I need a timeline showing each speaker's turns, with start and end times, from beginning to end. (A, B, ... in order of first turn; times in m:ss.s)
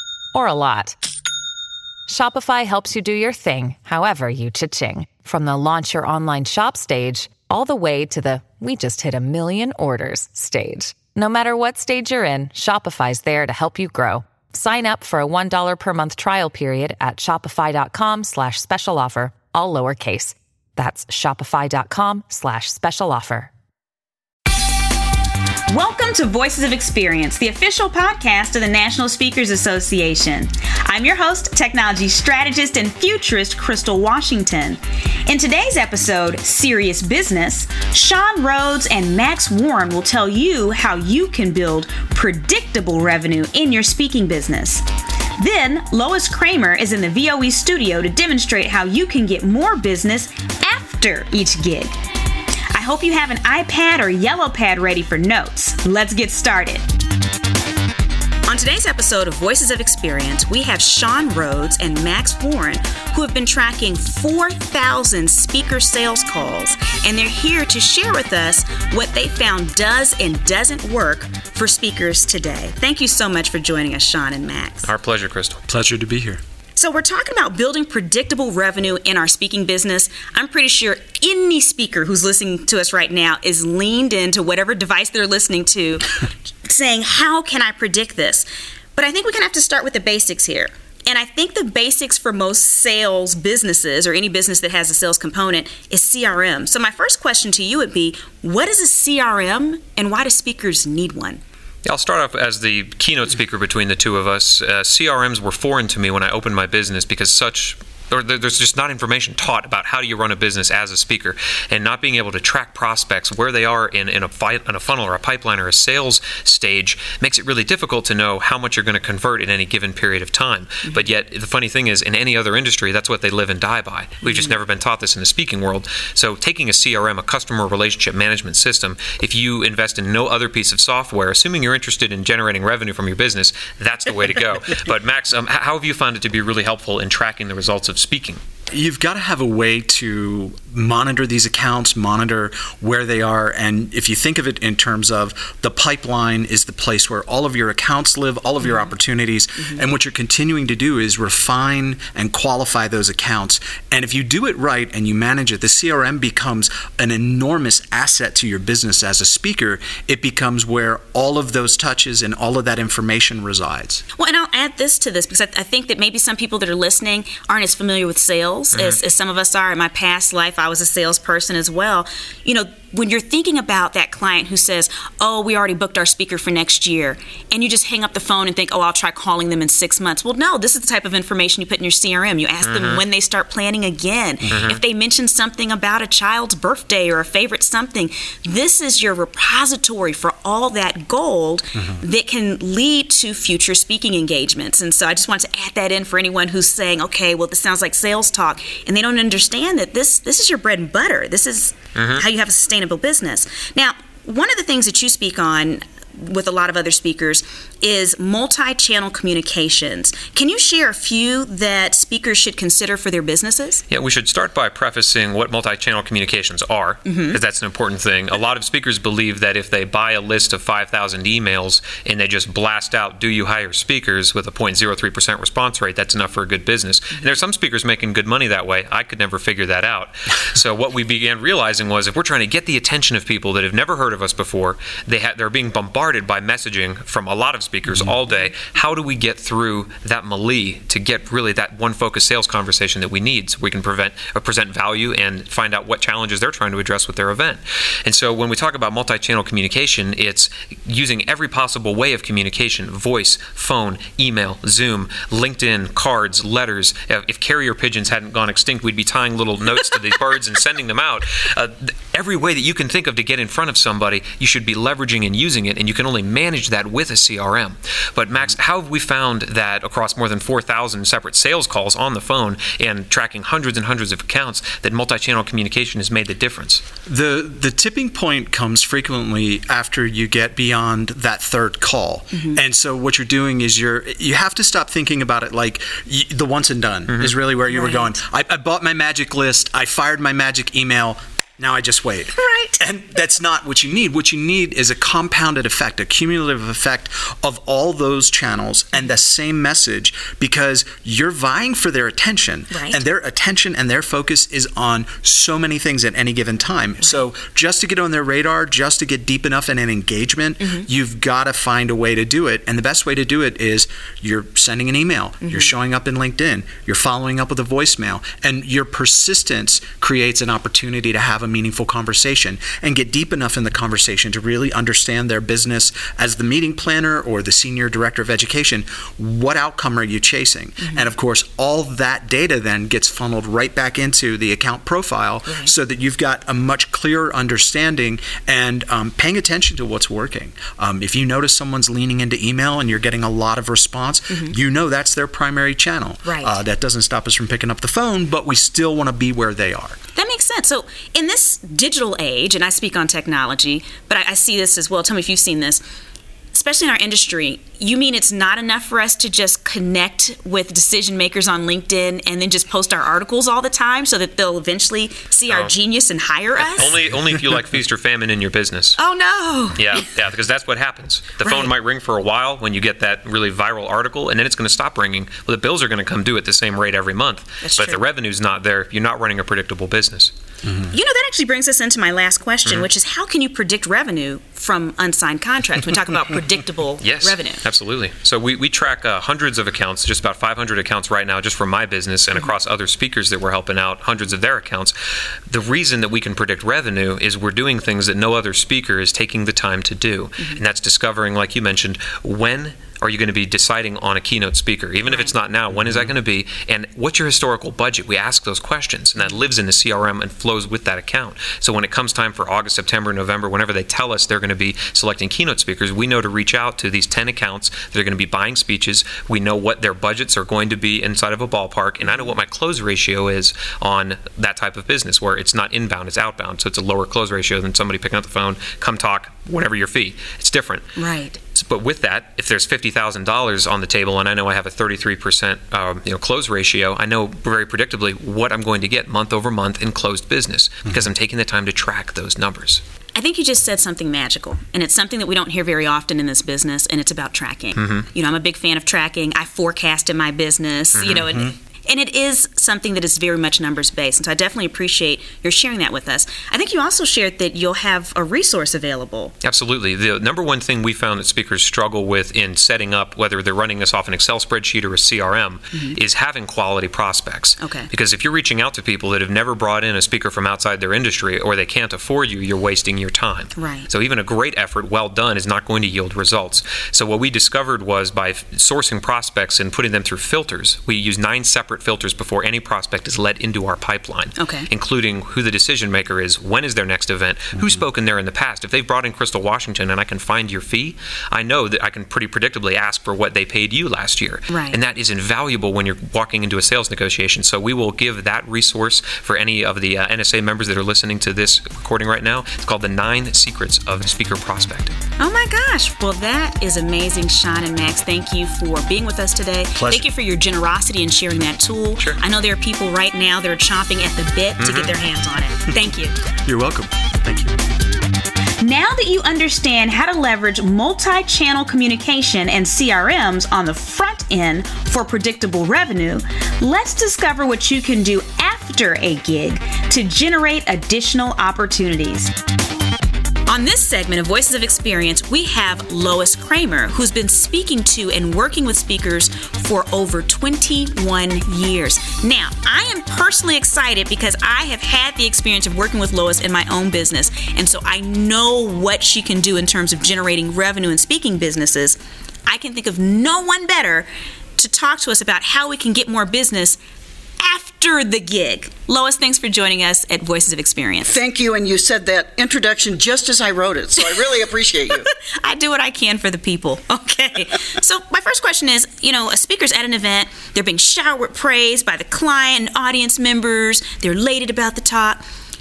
0:00.3-0:01.0 A
0:02.1-0:23.5 A
0:25.7-0:44.8 B
0:45.4-0:52.0 B
0:52.7-0:56.8 B
0:58.4-1:14.9 B
1:14.8-1:15.6 C
1:15.7-1:16.4 D
1:16.8-1:41.4 B
1:41.8-2:18.4 C
2:18.7-2:44.0 D
2:44.2-3:33.8 B
2:48.7-2:49.0 C
3:02.6-3:03.0 C
3:04.5-3:04.8 C
3:22.0-3:22.3 C
3:33.9-4:36.8 C
3:37.1-3:37.4 B
4:37.1-5:50.0 D
4:47.7-4:48.1 B
4:52.4-4:52.8 B
5:02.7-5:03.0 B
5:46.2-5:46.6 B
5:50.2-5:55.8 B
5:56.5-6:07.0 B
6:05.5-6:05.8 C
6:06.6-6:09.0 C
6:09.0-6:10.0 B
6:09.8-6:20.3 C
6:11.4-6:11.7 B
6:17.6-6:18.0 B
6:20.9-6:27.6 B
6:27.0-6:34.9 C
6:35.5-7:10.8 C
7:11.0-7:11.4 B
7:11.5-7:22.8 C
7:23.2-7:39.3 B
7:27.8-7:28.1 C
7:31.0-7:31.3 C
7:31.1-7:31.5 D
7:39.4-8:25.0 C
7:47.6-7:47.9 B
7:53.6-7:53.9 B
8:04.4-8:04.7 B
8:14.5-8:14.8 B
8:25.2-8:36.2 B
8:29.8-8:30.1 D
8:34.6-8:35.0 C
8:36.4-8:37.6 D
8:38.6-8:52.3 B
8:53.5-9:16.8 B
9:17.4-9:21.2 B
9:21.0-9:25.1 E
9:25.4-9:35.2 B